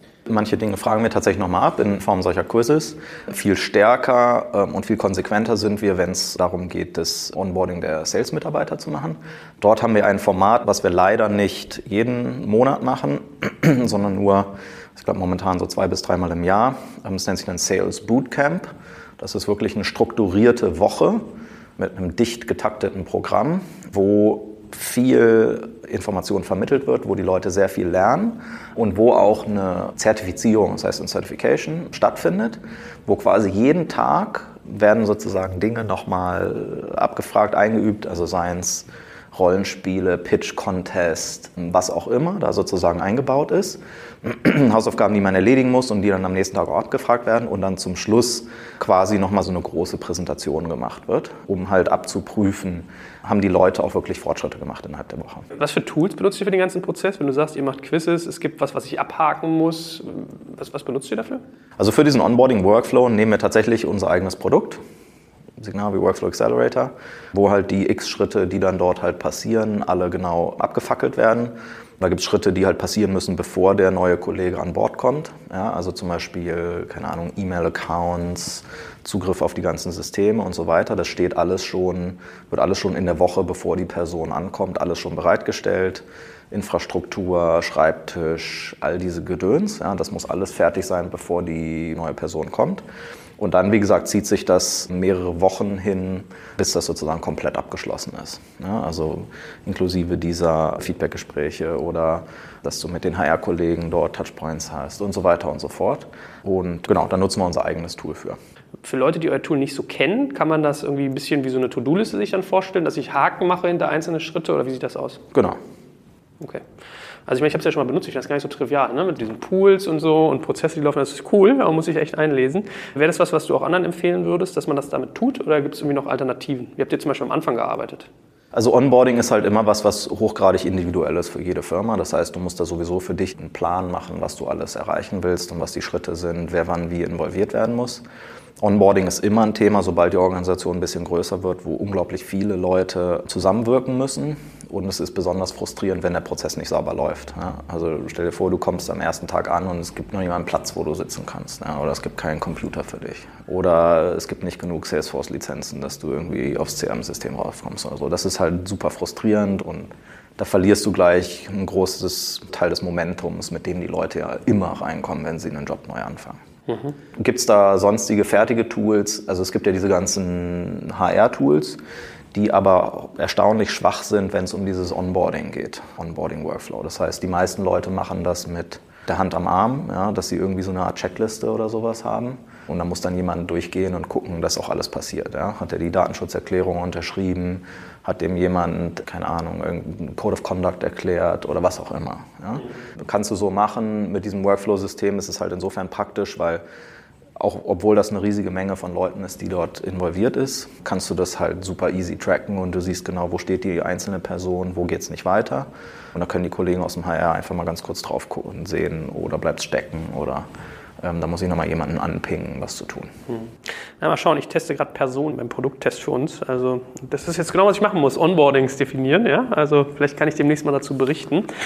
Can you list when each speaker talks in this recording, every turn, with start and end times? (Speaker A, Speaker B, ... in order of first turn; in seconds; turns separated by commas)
Speaker A: 0.3-21.3, Speaker A: 21.8-55.5, Speaker B: 55.5-61.4, Speaker A: 61.8-64.8, Speaker A: 65.6-92.8, Speaker A: 93.4-108.4, Speaker B: 108.8-115.2, Speaker A: 115.3-115.6, Speaker B: 117.3-128.1, Speaker A: 128.5-138.0, Speaker A: 138.6-166.4, Speaker B: 166.7-166.9, Speaker A: 167.2-171.8, Speaker A: 172.3-196.6, Speaker A: 197.4-210.5, Speaker A: 211.0-213.1, Speaker B: 214.0-221.5